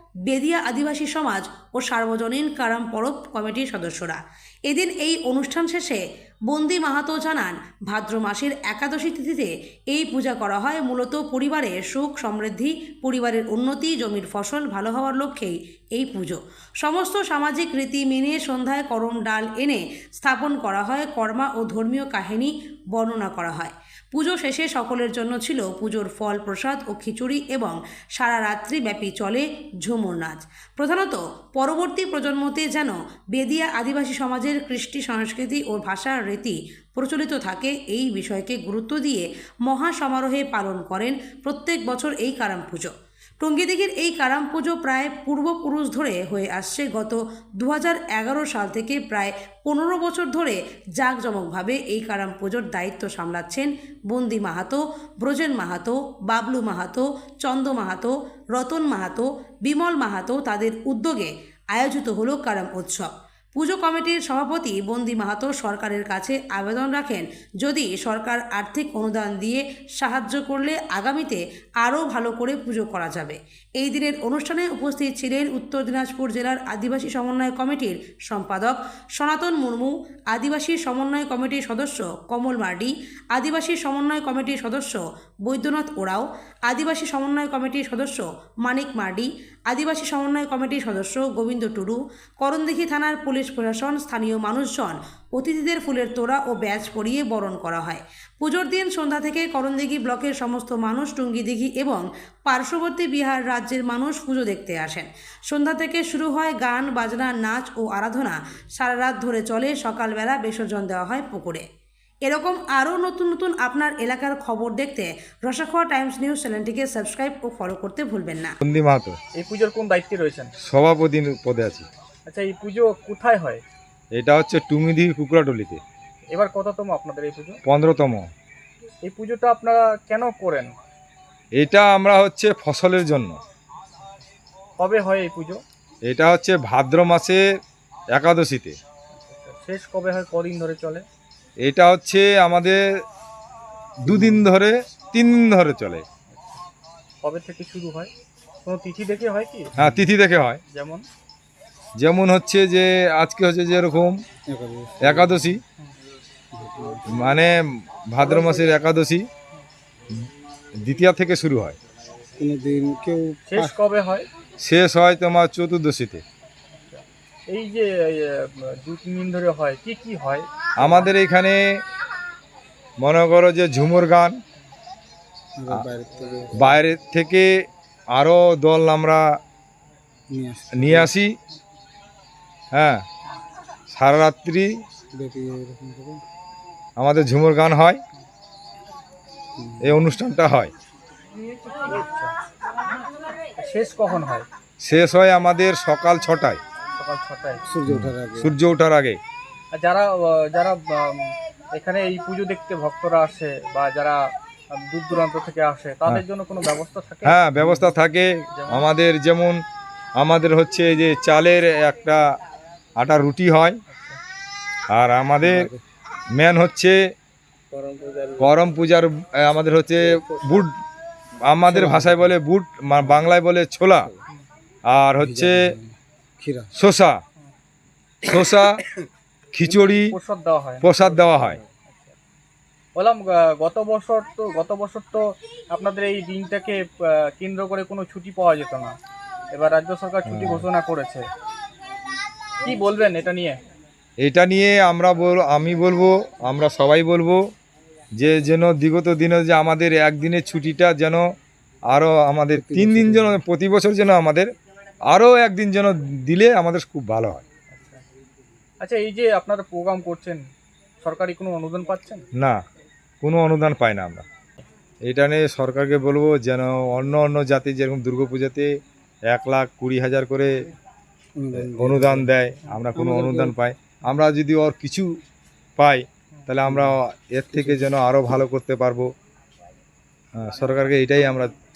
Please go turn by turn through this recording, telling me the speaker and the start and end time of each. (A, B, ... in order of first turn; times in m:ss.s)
0:00.3-1:51.7 A
1:52.2-1:58.6 A
1:58.6-1:59.2 B
1:59.4-2:00.5 C
2:00.6-2:01.9 B
2:02.3-2:03.6 C
2:04.2-2:05.8 B
2:06.3-2:07.6 C
2:07.7-2:08.3 B
2:09.0-2:10.8 C
2:11.6-2:13.4 B
2:14.8-2:15.6 C
2:16.1-2:17.4 B
2:18.1-2:18.8 B
2:19.1-2:21.0 C
2:21.6-2:22.8 B
2:24.0-2:26.0 B
2:24.1-2:24.4 D
2:26.3-2:26.6 C
2:27.2-2:28.1 C
2:28.6-2:29.7 C
2:29.8-2:30.6 B
2:29.8-2:30.0 D
2:30.7-2:31.0 C
2:32.0-2:34.2 B
2:34.5-2:35.6 D
2:35.0-2:35.6 B
2:36.5-2:37.2 D
2:37.1-2:37.5 B
2:38.1-2:39.3 B
2:38.4-2:38.7 C
2:40.8-2:41.8 B
2:42.4-2:43.8 D
2:43.5-2:44.3 C
2:44.6-2:46.2 B
2:46.7-2:51.0 C
2:50.8-2:51.6 B
2:53.0-2:54.4 B
2:55.6-2:56.8 D
2:56.6-2:57.5 B
2:58.1-2:59.2 B
3:00.3-3:01.1 D
3:00.8-3:01.3 B
3:02.7-3:03.0 B
3:03.9-3:04.7 B
3:05.1-3:06.2 D
3:07.0-3:08.0 B
3:09.6-3:10.0 D
3:09.8-3:10.7 B
3:11.8-3:12.3 C
3:13.6-3:14.5 C
3:14.8-3:16.6 B
3:17.0-3:17.6 C
3:17.7-3:18.5 D
3:17.9-3:19.2 B
3:19.7-3:27.4 C
3:27.2-3:29.6 B
3:28.6-3:28.9 C
3:30.2-3:32.2 B
3:33.0-3:33.8 B
3:33.9-3:34.2 C
3:34.9-3:35.7 B
3:35.4-3:35.8 D
3:36.4-3:37.0 B
3:37.8-3:38.4 C
3:38.4-3:40.8 B
3:41.5-3:44.1 B
3:41.7-3:42.3 D
3:44.9-3:45.6 B
3:45.2-3:46.7 D
3:46.8-3:47.2 B
3:48.2-3:48.8 B
3:49.5-3:50.1 B
3:49.6-3:52.2 C
3:50.8-3:51.6 B
3:53.0-3:59.0 C
3:59.5-4:01.3 C
4:00.3-4:00.7 B
4:02.6-4:03.6 C
4:04.2-4:07.4 B
4:08.2-4:11.2 B
4:11.9-4:14.5 B
4:12.6-4:13.4 D
4:15.1-4:17.4 B
4:17.7-4:18.0 C
4:18.8-4:20.4 C
4:21.0-4:22.2 C
4:23.2-4:24.2 B
4:25.1-4:28.7 B
4:29.3-4:30.5 B
4:31.4-4:32.3 D
4:31.5-4:35.1 B
4:33.0-4:33.5 D
4:35.8-4:39.1 B
4:36.7-4:37.0 D
4:37.5-4:37.9 D
4:40.4-4:41.5 B